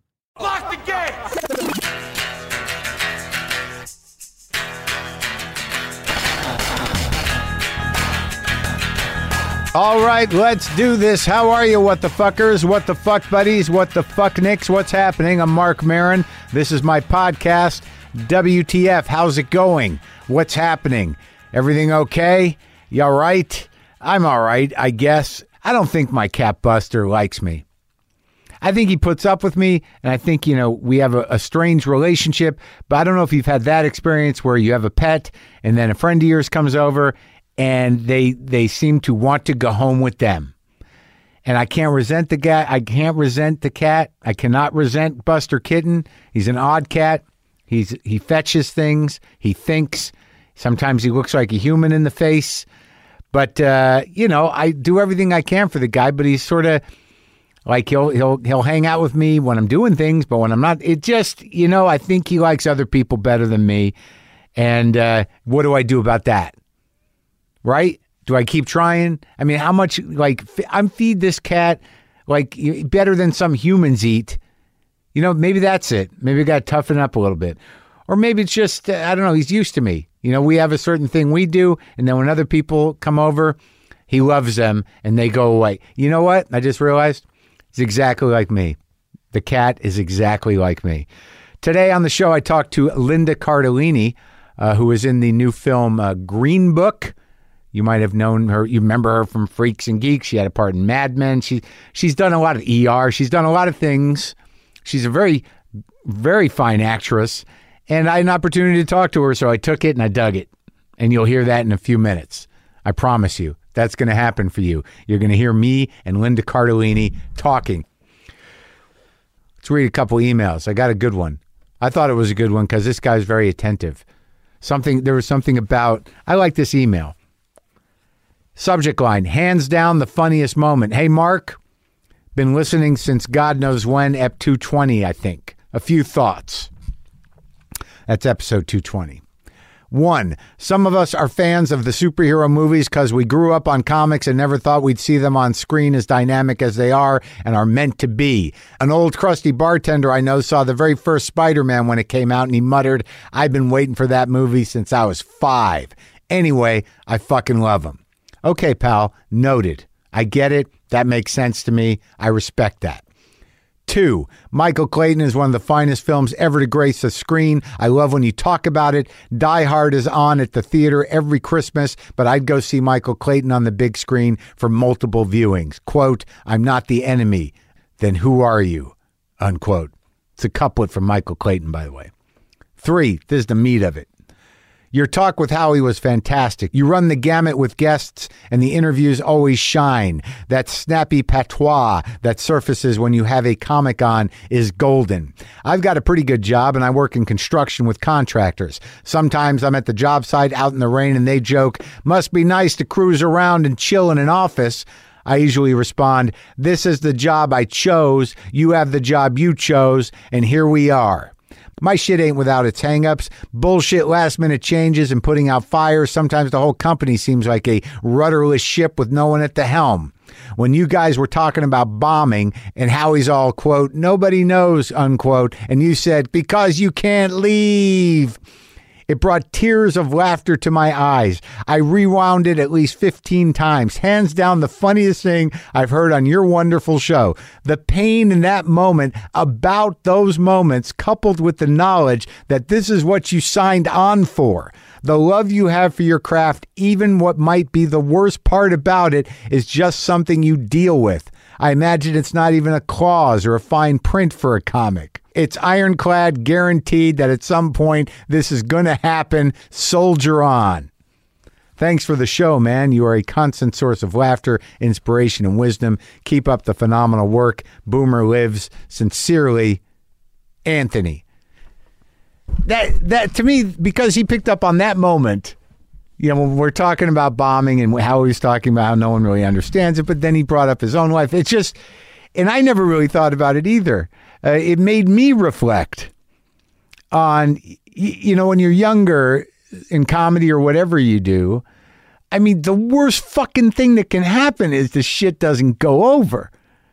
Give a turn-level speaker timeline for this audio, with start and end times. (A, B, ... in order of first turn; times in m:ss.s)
0:09.7-0:27.6 A
0:28.6-0:40.5 A
0:41.4-0:52.7 A
0:53.3-0:56.8 A
0:57.6-1:03.9 A
1:04.6-1:06.5 A
1:07.6-1:14.4 A
1:15.1-1:17.6 A
1:18.1-1:23.6 A
1:24.1-1:28.8 A
1:29.3-1:31.1 A
1:31.6-1:37.1 A
1:37.7-1:45.5 A
1:46.0-1:57.8 A
1:59.6-2:04.0 A
2:04.6-2:07.1 A
2:08.6-2:11.6 A
2:12.3-2:16.7 A
2:18.1-2:19.2 A
2:19.9-2:43.0 A
2:43.9-3:02.1 A
3:02.8-3:04.1 A
3:04.9-3:48.4 A
3:49.1-4:20.9 A
4:21.8-4:29.8 A
4:30.6-4:31.2 A
4:32.6-4:35.6 A
4:36.2-4:41.8 A
4:42.3-4:46.1 A
4:47.1-4:51.6 A
4:52.3-4:56.5 A